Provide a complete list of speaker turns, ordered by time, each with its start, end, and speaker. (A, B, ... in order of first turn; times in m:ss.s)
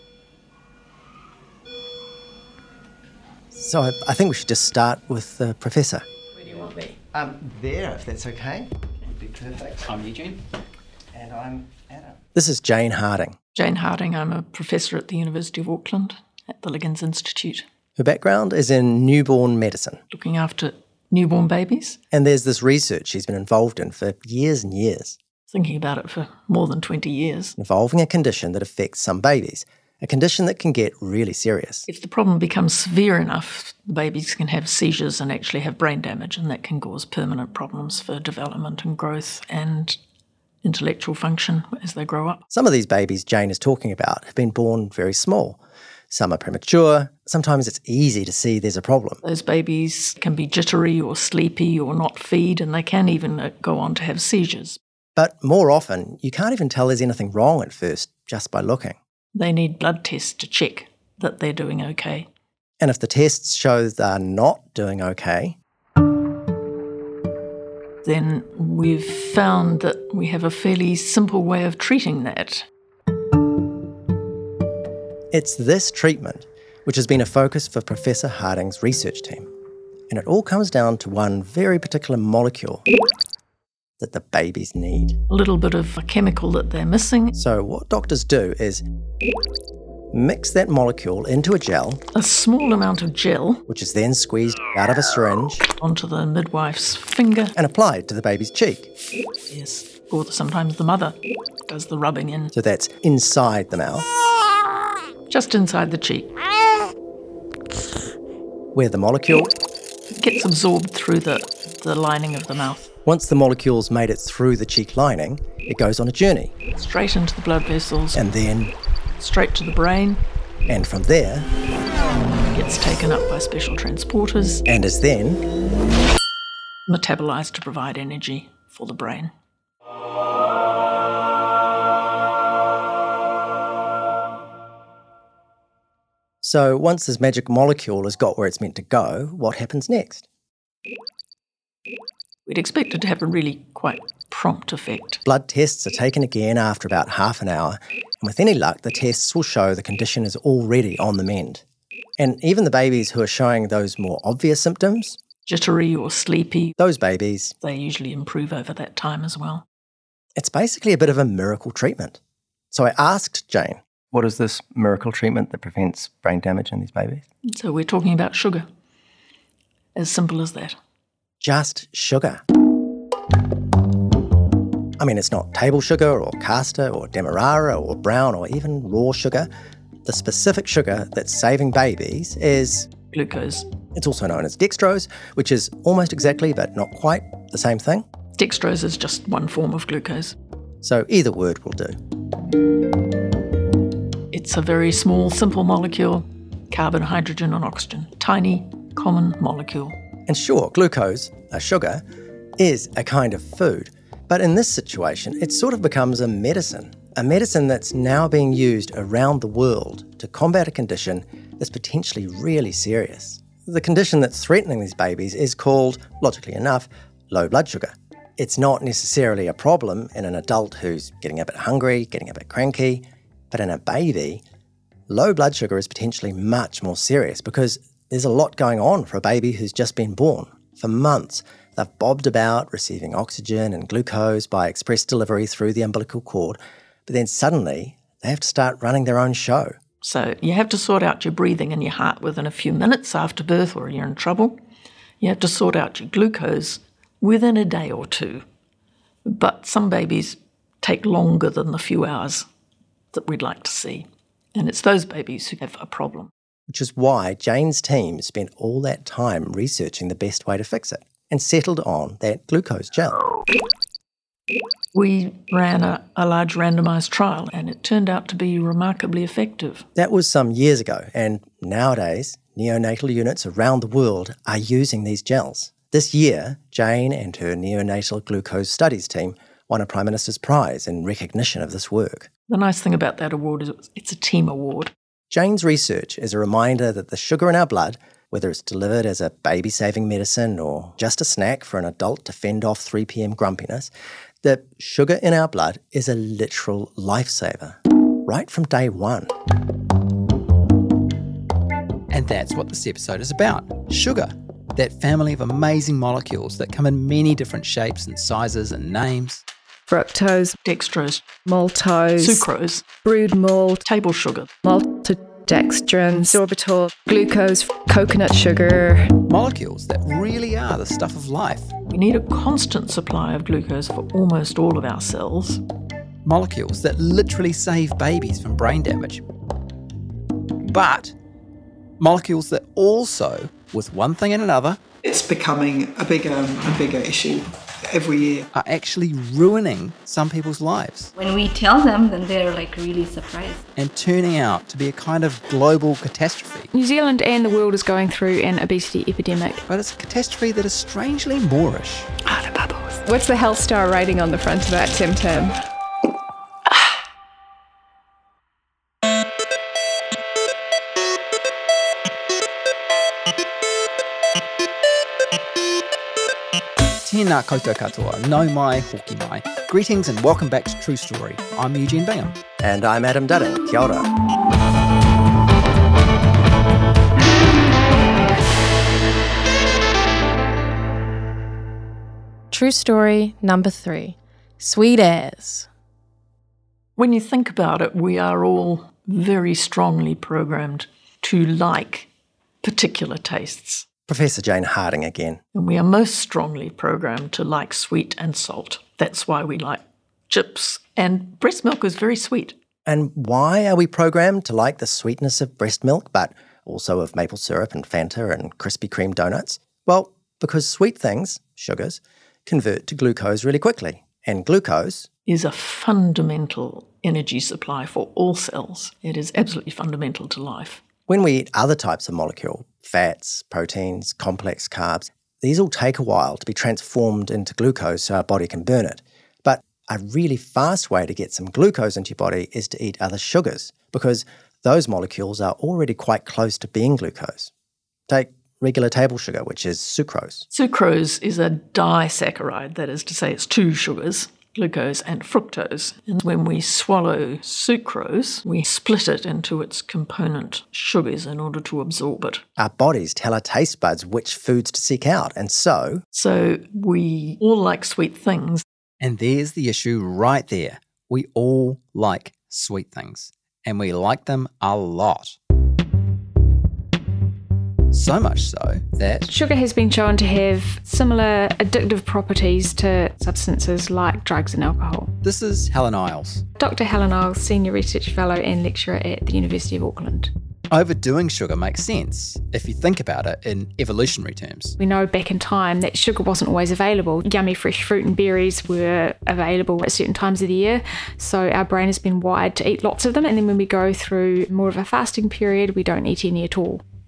0:03.5-0:09.9 A
0:09.9-0:10.4 B
0:11.1-0:13.4 A
0:13.5-0:17.6 C
0:18.0-0:20.0 A
0:20.1-0:22.0 C
0:22.1-0:25.2 A
0:25.5-0:27.5 C
0:27.6-0:31.9 A
0:31.9-0:40.0 C
0:40.6-0:42.4 C
0:42.5-0:45.6 A
0:46.1-0:49.2 A
0:49.2-0:54.8 C
0:55.2-0:59.0 A
0:59.3-1:02.3 C
1:02.8-1:05.6 A
1:08.0-1:12.7 C
1:15.3-1:19.5 A
1:20.1-1:22.8 A
1:24.0-1:25.2 A
1:25.3-1:27.3 C
1:27.3-1:28.8 A
1:30.1-1:32.0 A
1:32.1-1:33.6 C
1:33.7-1:35.7 A
1:35.8-1:37.5 C
1:37.6-1:38.9 A
1:39.5-1:41.2 C
1:41.7-1:42.5 C
1:42.5-1:44.1 A
1:45.3-1:46.3 C
1:48.7-1:49.5 A
1:50.1-1:52.9 C
1:53.0-1:56.5 A
1:56.7-1:58.2 C
1:58.1-1:58.7 A
1:59.2-2:00.2 C
2:00.7-2:01.5 A
2:02.5-2:04.6 C
2:04.6-2:05.4 A
2:06.9-2:09.3 C
2:16.4-2:20.2 A
2:22.4-2:25.2 C
2:25.2-2:31.6 A
2:32.2-2:35.2 A
2:35.5-2:36.8 C
2:36.8-2:37.5 A
2:37.6-2:39.6 C
2:40.4-2:42.2 A
2:42.7-2:47.2 A
2:47.5-2:48.6 C
2:49.9-2:50.8 C
2:51.4-2:52.4 A
2:55.0-2:59.5 A
3:00.0-3:02.9 A
3:03.1-3:03.7 C
3:03.9-3:08.0 A
3:08.4-3:10.4 C
3:10.8-3:12.0 A
3:14.3-3:20.0 C
3:20.2-3:22.0 A
3:22.6-3:44.4 A
3:45.1-3:59.8 A
4:00.0-4:04.6 C
4:05.2-4:08.4 C
4:09.2-4:12.4 C
4:13.1-4:16.3 C
4:16.7-4:23.2 A
4:24.9-4:29.9 C
4:30.0-4:42.3 A
4:42.5-4:44.9 C
4:45.3-4:53.9 A
4:54.4-4:59.3 A
5:02.1-5:09.4 B
5:09.9-5:10.6 D
5:10.6-5:11.2 C
5:11.4-5:12.4 D
5:12.2-5:12.8 C
5:13.0-5:13.8 D
5:13.8-5:14.5 C
5:14.6-5:19.1 D
5:19.3-5:21.7 B
5:21.9-5:25.6 C
5:26.2-5:29.2 B
5:30.6-5:31.1 B
5:32.0-5:34.8 B
5:35.0-5:38.5 E
5:38.5-5:41.1 B
5:41.2-5:43.6 F
5:43.8-5:46.7 B
5:46.7-5:49.6 G
5:49.7-5:52.1 B
5:53.0-5:55.6 D
6:07.0-6:12.4 B
6:12.6-6:14.1 A
6:22.5-6:25.7 H
6:27.0-6:32.1 C
6:32.6-6:33.8 C
6:34.1-6:35.4 A
6:35.5-6:42.6 C
6:42.8-6:55.1 A
6:55.2-7:00.8 C
7:01.1-7:17.5 A
7:18.1-7:20.5 A
7:20.5-7:32.4 C
7:32.6-7:36.0 A
7:36.1-7:38.6 C
7:39.0-7:45.4 B
7:47.9-7:49.3 B
7:49.3-7:55.1 G
7:55.2-7:56.4 B
7:56.6-8:00.3 G
8:00.7-8:04.8 B
8:04.8-8:16.8 G